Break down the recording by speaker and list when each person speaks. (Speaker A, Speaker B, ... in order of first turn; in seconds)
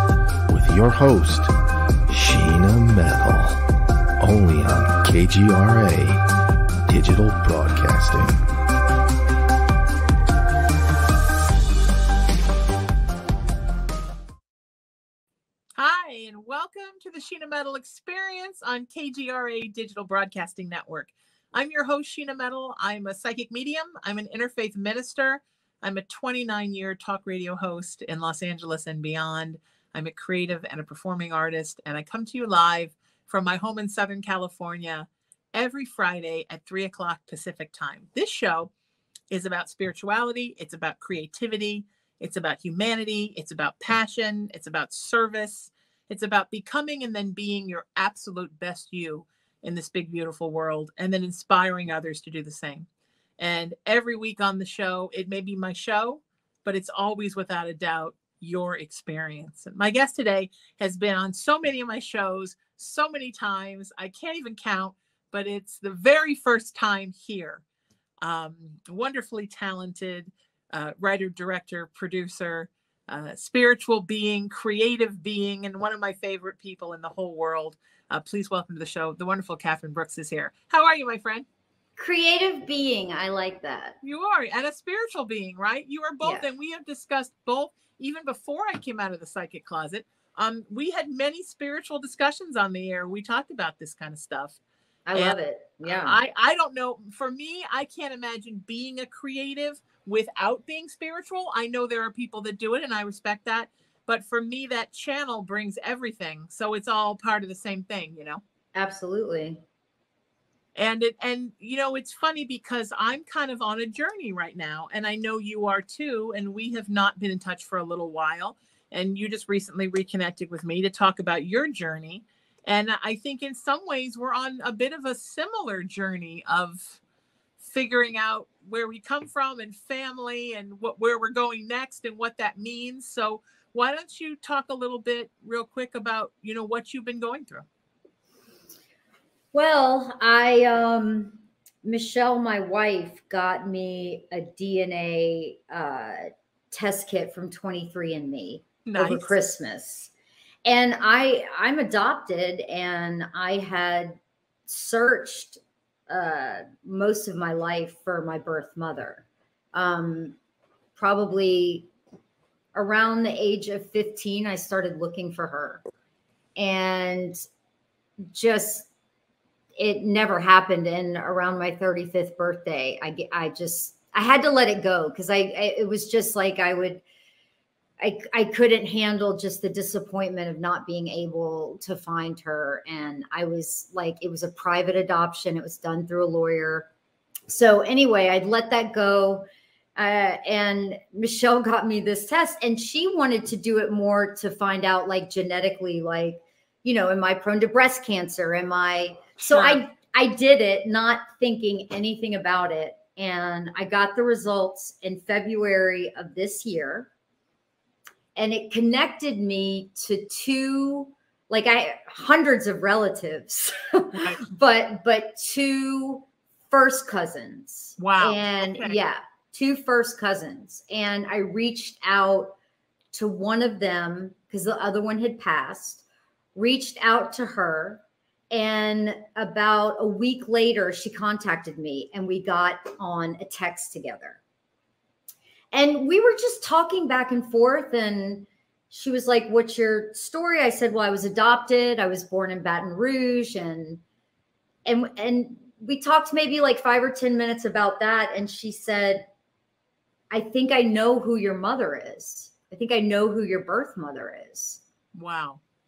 Speaker A: 0.5-1.5, 2.1-3.6, 4.2-6.2, 6.9-8.5
Speaker B: 15.8-38.7, 39.3-52.9, 53.4-67.6, 68.2-81.5, 84.0-94.6, 95.2-108.4, 110.8-127.0, 127.6-137.7, 148.9-149.3, 199.4-199.8, 214.1-214.4, 218.0-219.0, 255.1-255.6
Speaker C: 82.0-84.0, 86.2-86.5, 95.1-96.2, 108.8-109.6, 139.5-150.1, 150.7-154.2, 154.7-160.4, 161.0-161.9, 162.7-165.8, 166.6-167.4, 168.3-168.9, 169.8-177.0, 178.0-186.9, 187.5-207.1, 208.3-222.5, 223.1-226.0, 226.6-234.4, 235.7-244.0, 244.8-249.3, 250.3-254.8